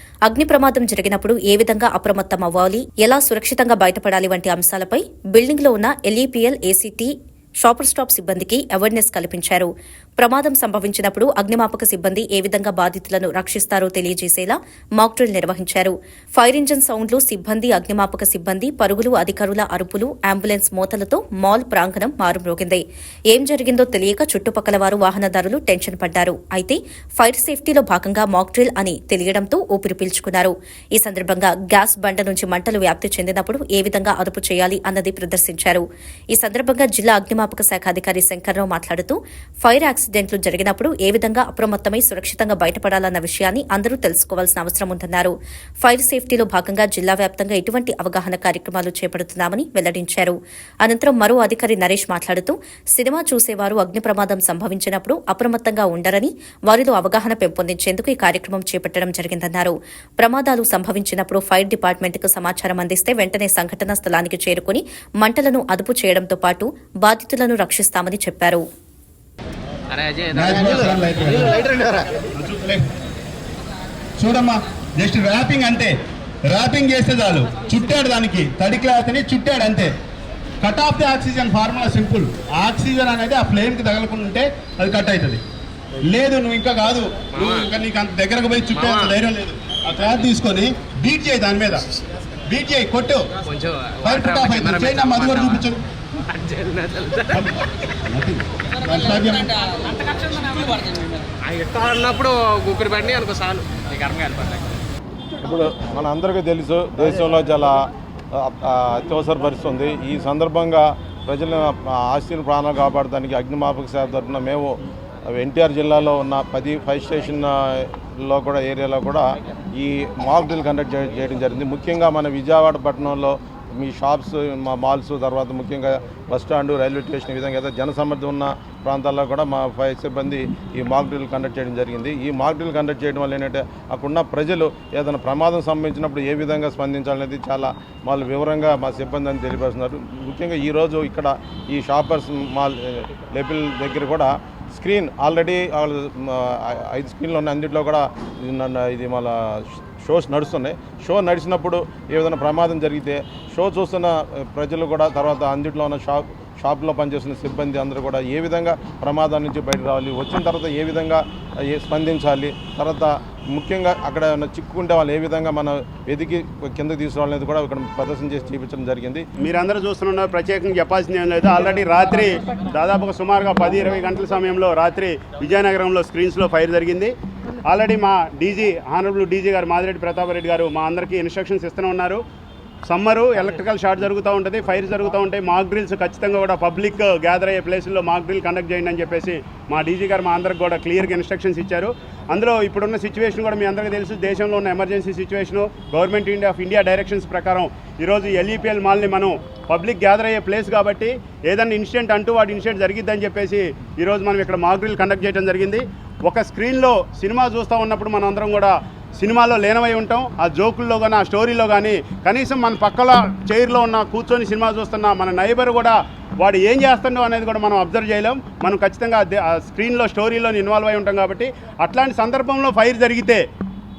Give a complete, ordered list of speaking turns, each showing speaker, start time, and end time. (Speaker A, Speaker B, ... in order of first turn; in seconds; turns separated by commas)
Speaker A: 0.3-7.1, Speaker A: 7.6-22.8, Speaker A: 23.3-68.6, Speaker B: 69.9-71.0, Speaker C: 70.3-71.8, Speaker B: 71.5-72.1, Speaker C: 72.3-72.9, Speaker C: 74.2-75.9, Speaker C: 76.5-79.9, Speaker C: 80.6-85.4, Speaker C: 86.0-91.8, Speaker B: 87.3-87.7, Speaker B: 88.7-89.2, Speaker C: 92.5-93.2, Speaker B: 93.5-95.7, Speaker C: 94.0-95.8, Speaker B: 96.3-97.4, Speaker C: 97.3-99.5, Speaker B: 100.2-100.8, Speaker B: 101.4-104.6, Speaker D: 105.4-107.8, Speaker D: 108.3-114.7, Speaker D: 115.3-169.2, Speaker C: 169.4-177.1, Speaker C: 177.6-182.2, Speaker C: 182.9-223.4